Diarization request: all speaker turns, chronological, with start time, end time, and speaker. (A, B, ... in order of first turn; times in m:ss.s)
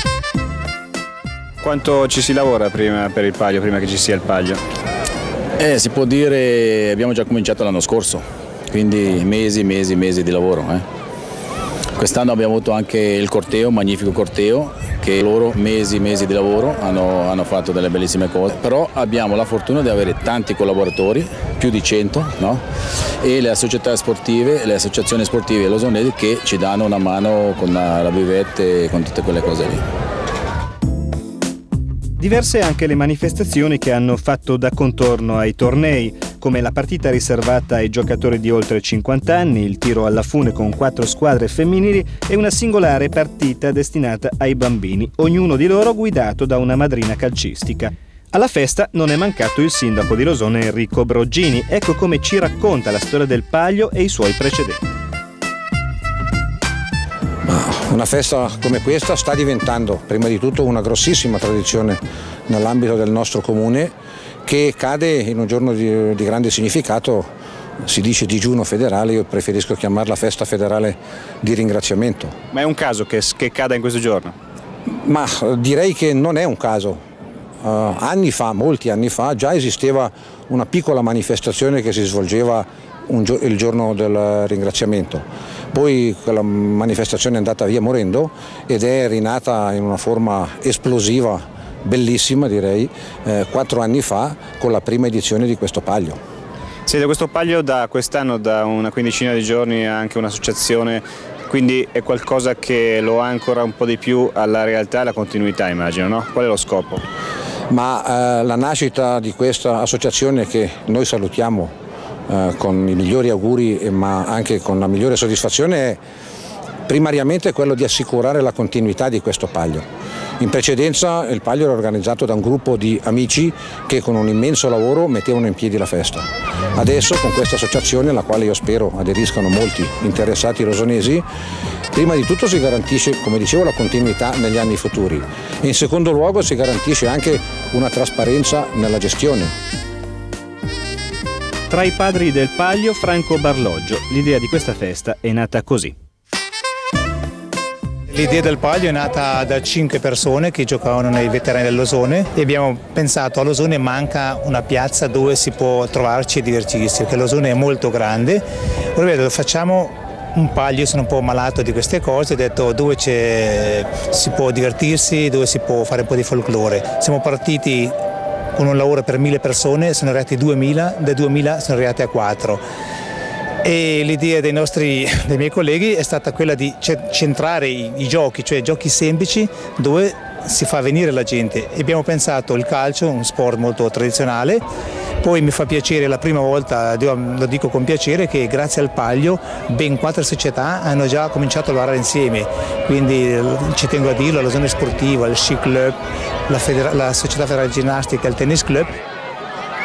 0:01.6-0:04.6 A
0:05.6-0:10.8 B
0:12.0-0:22.6 B
0:23.2-0:29.8 B
0:32.2-0:54.8 C
0:57.4-1:03.9 D
1:04.4-1:07.3 D
1:07.8-1:12.4 D
1:12.5-1:14.3 A
1:14.9-1:17.0 D
1:17.6-1:36.2 D
1:36.9-1:47.0 A
1:47.7-1:51.7 D
1:52.3-1:56.0 D
1:56.9-1:59.8 D
2:00.4-2:11.3 D
2:11.9-2:19.5 D
2:21.7-2:26.0 C
2:28.1-2:38.4 E
2:39.0-2:48.0 E
2:48.6-2:52.6 E
2:53.6-3:04.6 E
3:05.2-3:16.0 E
3:16.5-3:19.0 E